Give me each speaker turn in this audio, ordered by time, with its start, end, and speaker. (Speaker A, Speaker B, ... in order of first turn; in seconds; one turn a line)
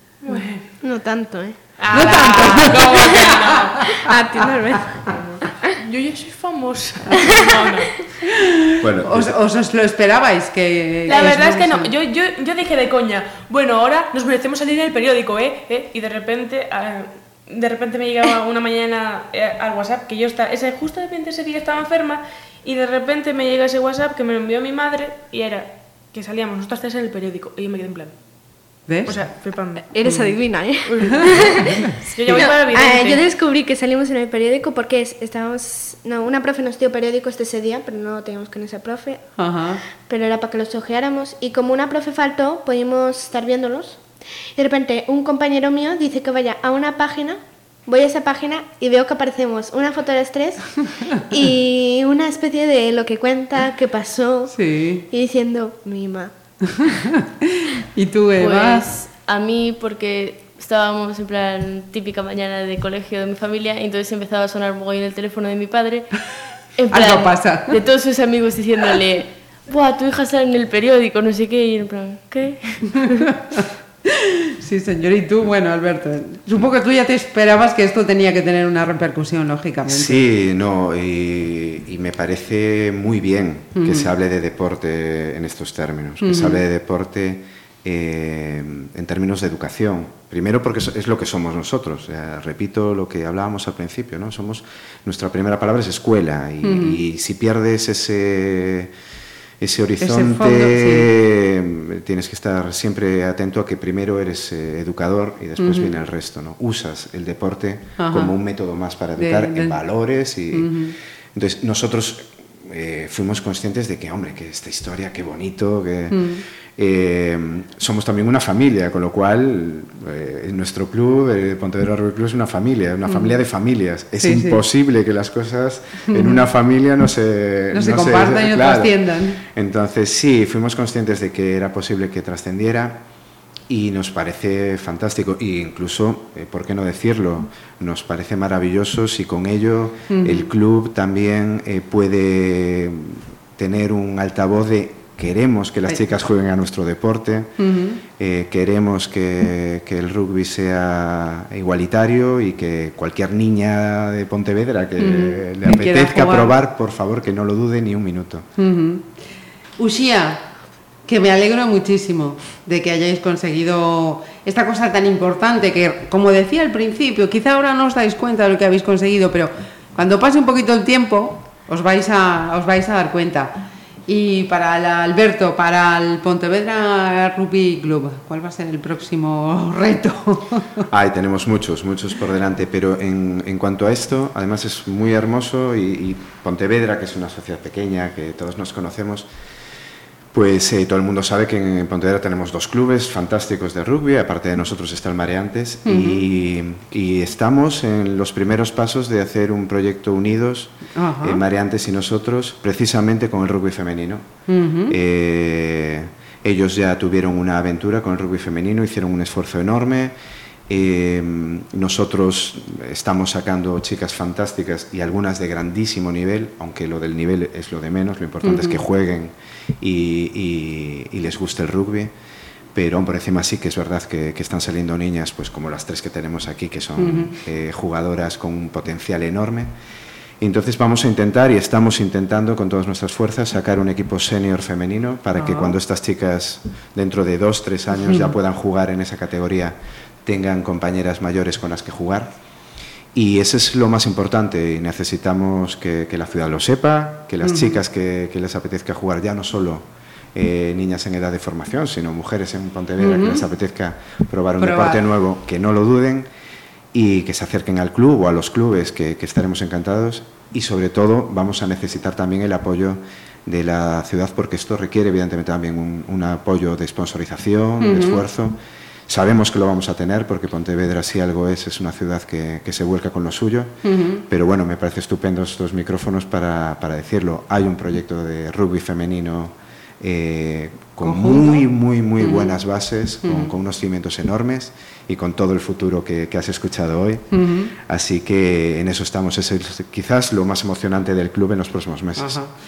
Speaker A: 0.2-0.7
Speaker B: 0.8-1.7
Speaker A: 1.8-4.0
Speaker C: 1.9-4.0
Speaker B: 4.0-5.2
Speaker A: 5.0-8.1
Speaker C: 8.2-11.9
Speaker D: 8.8-9.4
Speaker A: 11.1-28.2
Speaker C: 28.9-29.2
Speaker A: 29.1-29.9
Speaker B: 29.9-39.3
Speaker C: 30.0-30.4
Speaker A: 30.9-33.2
Speaker C: 31.1-32.4
Speaker C: 39.4-39.8
Speaker B: 39.9-54.5
Speaker C: 54.5-55.1
Speaker B: 55.1-56.3
Speaker C: 56.6-58.9
Speaker E: 58.4-66.2
Speaker E: 66.7-73.3
Speaker C: 66.9-67.8
Speaker C: 73.5-80.2
Speaker D: 79.9-98.9
Speaker C: 83.8-84.1
Speaker C: 86.2-86.6
Speaker C: 96.6-97.0
Speaker D: 99.6-110.7
Speaker C: 100.0-101.1
Speaker C: 105.6-105.9
Speaker C: 108.0-108.3
Speaker C: 109.2-109.8
Speaker C: 110.5-110.9
Speaker D: 111.3-133.0
Speaker C: 116.1-116.4
Speaker C: 123.1-123.4
Speaker C: 124.2-124.6
Speaker C: 126.1-126.4
Speaker C: 127.7-129.4
Speaker D: 133.7-147.6
Speaker C: 140.1-140.5
Speaker C: 147.6-148.0
Speaker D: 148.1-158.5
Speaker C: 155.0-156.5
Speaker C: 158.6-159.2
Speaker C: 159.8-160.5
Speaker C: 161.0-180.8
Speaker D: 180.9-189.3
Speaker D: 190.3-204.3
Speaker C: 195.8-196.2
Speaker C: 200.9-201.4
Speaker C: 204.5-205.0
Speaker D: 204.9-210.1
Speaker D: 210.7-222.1
Speaker C: 218.4-218.8
Speaker D: 222.7-229.7
Speaker C: 227.0-227.3
Speaker D: 230.4-242.3
Speaker C: 235.4-235.7
Speaker C: 238.0-238.3
Speaker D: 243.1-256.3
Speaker C: 247.4-247.8
Speaker C: 253.0-253.4
Speaker C: 254.6-255.0
Speaker D: 256.9-268.6
Speaker C: 267.8-268.2
Speaker D: 269.1-292.4
Speaker C: 273.8-274.2
Speaker C: 281.0-281.6
Speaker C: 282.2-282.6
Speaker C: 283.2-283.5
Speaker C: 287.3-287.7
Speaker C: 292.2-292.5